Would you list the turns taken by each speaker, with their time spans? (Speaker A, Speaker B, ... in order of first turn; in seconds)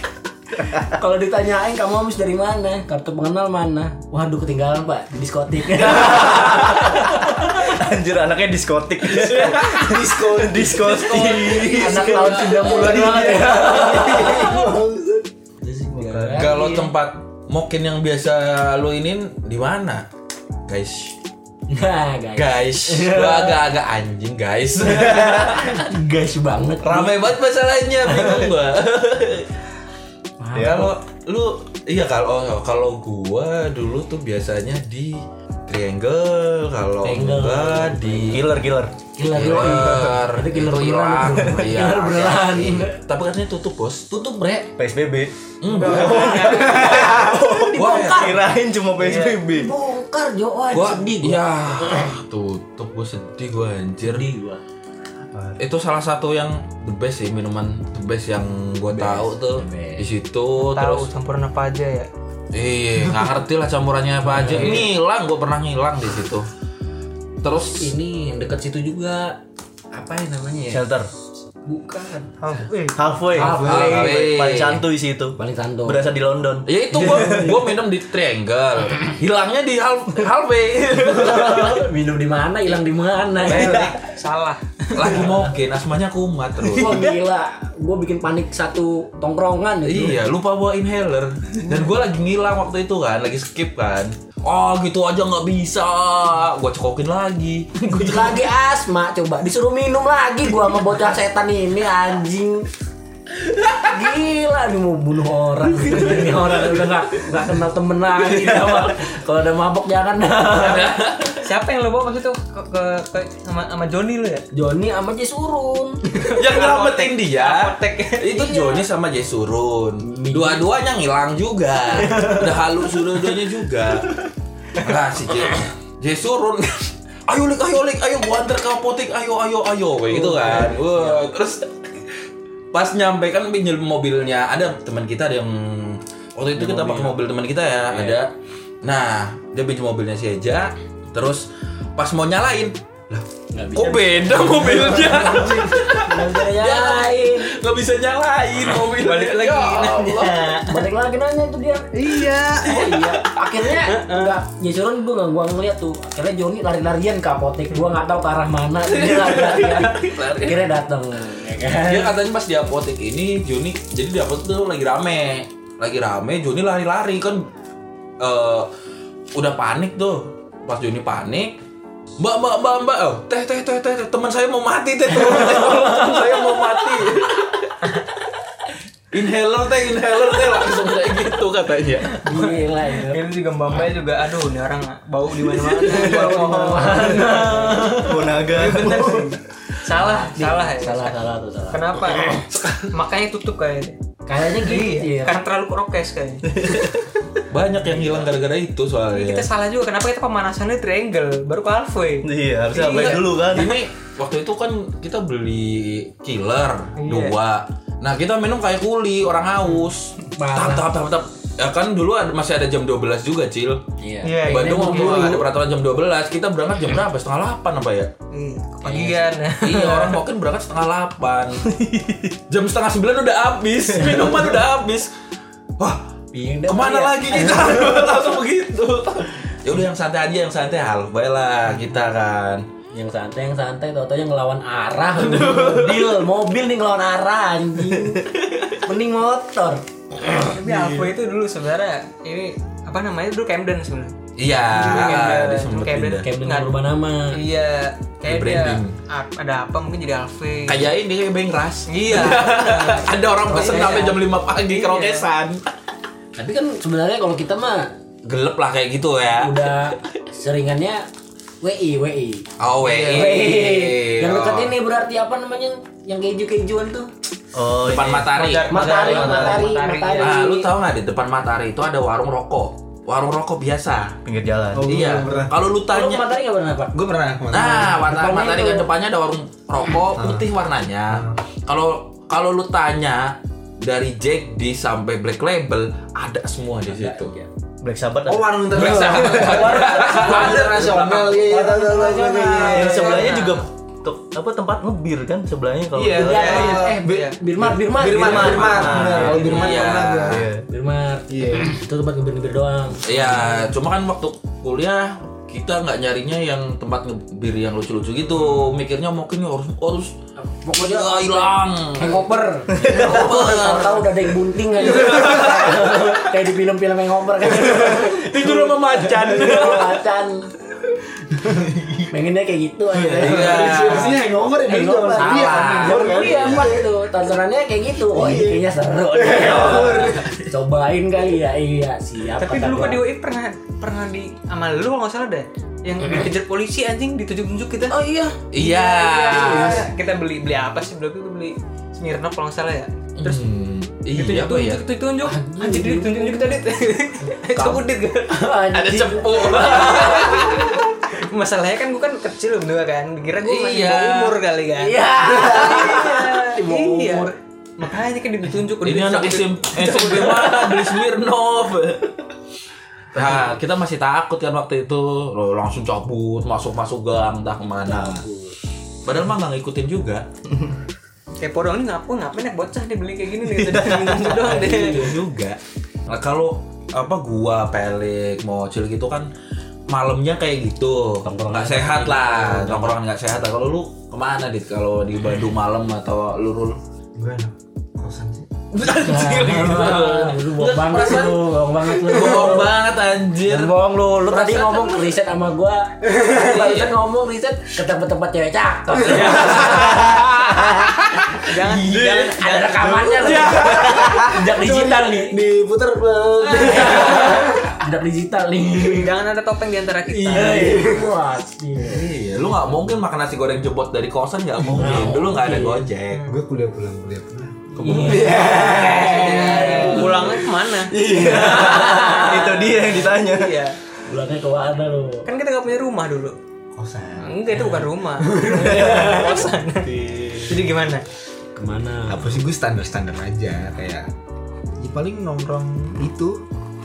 Speaker A: 0.8-7.6, 11.7-14.6, 15.6-16.9, 21.7-23.6, 24.9-27.2, 28.1-28.5, 30.4-30.9, 37.0-38.4, 39.1-43.0, 46.2-48.4, 49.1-52.1, 54.0-54.6, 58.9-60.1, 64.2-64.9, 67.8-69.4, 69.9-70.8, 71.7-72.3, 73.3-74.3, 75.4-76.0, 76.9-77.5, 81.0-83.9, 86.7-90.2, 97.9-102.7, 103.8-111.0, 114.5-116.2, 120.0-120.6, 122.0-122.4, 130.1-131.2, 136.6-137.1, 143.5-147.5, 150.6-162.2, 175.4-176.2, 182.2-183.2, 185.8-187.9, 189.9-192.3, 194.3-195.4, 210.3-210.8, 214.0-215.5, 218.8-219.3, 226.3-228.3, 232.9-239.8, 246.2-247.4, 253.5-254.2, 256.4-257.9, 259.4-261.0, 261.6-262.4, 263.0-267.1, 268.7-270.7, 275.9-276.9, 277.5-278.9, 286.9-287.5, 288.9-290.8, 291.4-293.4, 296.1-299.9, 300.7-303.6, 310.4-320.5, 322.1-333.0, 337.9-338.4, 339.2-339.9, 345.2-346.6, 347.3-350.7, 354.8-357.3, 359.8-360.3, 367.9-368.6, 374.5-375.0, 381.2-382.9, 389.0-392.7, 393.4-400.2, 401.7-405.4, 406.6-409.1, 410.3-412.1, 414.7-415.9, 417.8-420.3, 421.1-422.6, 424.1-425.3, 427.5-427.9, 428.4-429.4, 431.6-432.4
Speaker B: 5.8-13.3, 15.8-16.6, 30.5-30.9, 38.3-38.9, 44.8-49.7, 64.5-64.8, 70.7-71.1, 72.9-77.2, 86.8-87.1, 185.9-187.0, 188.0-189.3, 196.6-196.9, 202.2-203.8, 221.7-222.3, 267.5-269.7, 274.2-275.2, 287.8-289.1, 292.7-296.8, 297.6-299.5, 300.3-300.6, 312.7-313.1, 373.5-374.4, 403.3-404.2, 417.8-418.5, 420.9-423.5
Speaker C: 9.4-15.3, 72.4-73.7, 274.8-275.6, 276.9-278.0, 280.1-280.4, 281.1-281.4, 288.3-293.4, 295.9-300.4, 301.3-301.8, 308.4-308.8, 314.8-315.7, 323.0-326.9, 328.1-330.4, 355.2-355.8, 387.2-388.5, 396.1-396.8, 403.2-407.7, 410.1-411.0, 416.3-420.4, 426.7-427.5, 428.2-429.3, 432.1-434.1, 434.8-436.4
Speaker D: 10.9-12.5, 16.4-20.1, 20.7-21.1, 22.4-25.9, 26.8-29.5, 30.6-38.4, 39.3-44.7, 45.6-46.9, 47.7-48.3, 50.7-54.2, 55.6-61.1, 62.5-66.5, 67.4-67.9, 73.6-74.8, 76.7-81.8, 83.5-83.9, 84.9-87.1, 89.8-98.4, 105.8-106.7, 110.5-111.4, 116.2-124.2, 124.7-132.1, 132.7-138.3, 138.8-141.4, 142.0-150.6, 152.3-153.2, 158.9-160.6, 161.8-167.5, 168.2-168.7, 169.3-171.5, 172.2-177.7, 179.1-182.2, 187.2-188.2, 192.5-192.8, 197.5-199.5, 202.9-213.8, 214.4-218.1, 219.6-221.7, 222.5-225.1, 226.7-232.6, 235.3-236.0, 240.7-241.0, 244.4-246.3, 248.2-249.0, 250.7-255.6, 258.2-259.9, 262.6-264.7, 267.8-268.9, 270.2-274.1, 274.8-276.2, 277.5-287.3, 288.7-291.5, 292.5-293.5, 298.1-300.5, 303.0-310.1, 310.8-312.2, 312.8-314.1, 314.8-316.1, 317.6-320.0, 323.0-324.2, 325.1-326.6, 329.4-330.1, 338.5-339.9, 343.2-344.8, 348.7-350.8, 353.4-354.4, 358.8-362.2, 363.1-368.2, 369.0-370.2, 374.3-379.3, 379.9-386.8, 388.7-393.7, 394.3-395.1, 399.1-401.3, 403.2-403.9, 411.9-416.2, 429.9-430.4
Speaker E: 45.7-47.1, 49.0-49.4, 60.6-62.1, 72.5-72.9, 83.4-85.3, 111.4-114.4, 116.1-118.8, 149.0-150.6, 151.9-152.9, 153.8-154.4, 182.3-187.7, 188.4-191.2, 191.7-196.6, 199.1-203.8, 207.0-207.4, 214.2-215.3, 218.3-220.2, 240.4-244.1, 244.7-246.7, 247.3-250.9, 251.9-253.1, 254.6-255.3, 262.8-263.4, 268.3-270.4, 296.3-297.4, 332.3-343.4, 344.1-348.5, 349.6-350.6, 351.1-360.4, 371.4-375.2, 401.4-402.9, 406.5-407.1, 408.8-410.8, 416.1-416.4, 418.3-423.8, 425.2-426.4, 427.2-429.9, 430.5-431.0